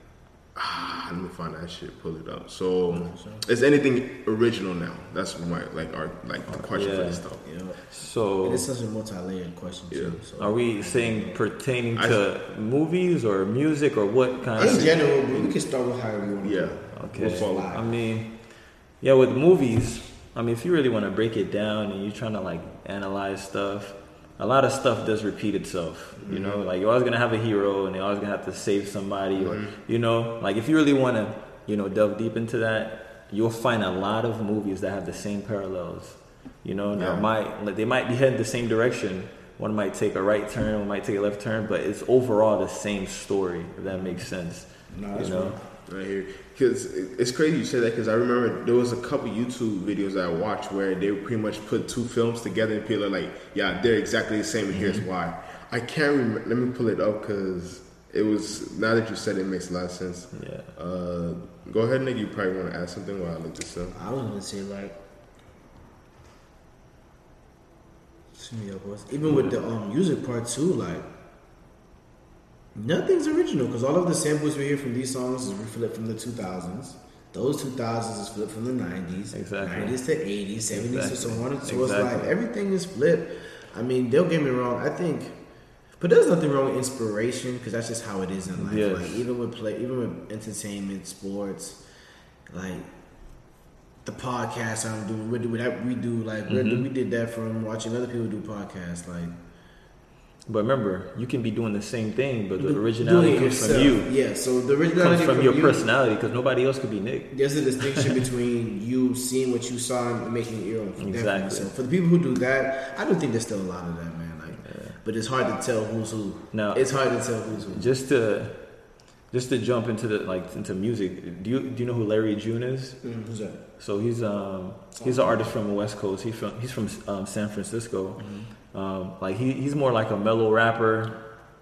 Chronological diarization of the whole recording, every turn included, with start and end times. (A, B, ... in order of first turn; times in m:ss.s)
0:00.6-0:07.4 A
0:02.9-0:03.4 B
0:06.5-0:07.2 C
0:07.4-0:07.8 B
0:07.9-0:08.7 C
0:08.4-0:11.4 B
0:09.9-0:10.2 A
0:10.4-0:14.9 C
0:12.0-0:12.2 A
0:14.6-0:15.6 A
0:14.6-0:17.9 B
0:16.4-0:17.8 A
0:16.9-0:18.3 C
0:19.0-0:45.6 C
0:26.2-0:26.6 A
0:29.4-0:29.8 A
0:37.0-0:37.3 A
0:44.9-0:45.6 B
0:45.9-1:04.0 A
0:54.7-0:55.0 C
1:00.3-1:00.7 C
1:04.0-1:05.0 B
1:08.4-1:11.1 B
1:09.3-1:09.5 C
1:12.7-1:25.4 B
1:19.3-1:20.0 C
1:20.7-1:22.3 C
1:26.0-1:31.8 B
1:28.6-1:29.2 C
1:32.5-1:32.9 B
1:34.0-1:39.3 B
1:36.5-1:36.9 C
1:40.5-1:44.1 C
1:42.6-1:45.8 B
1:45.0-1:48.1 C
1:47.3-1:57.9 B
1:51.0-1:51.7 C
1:54.6-1:55.0 C
1:56.5-1:56.8 C
1:57.7-1:58.6 C
1:59.3-2:03.0 C
2:03.0-2:03.6 B
2:03.8-2:08.2 C
2:05.0-2:05.5 B
2:08.2-2:08.5 B
2:08.7-2:11.2 C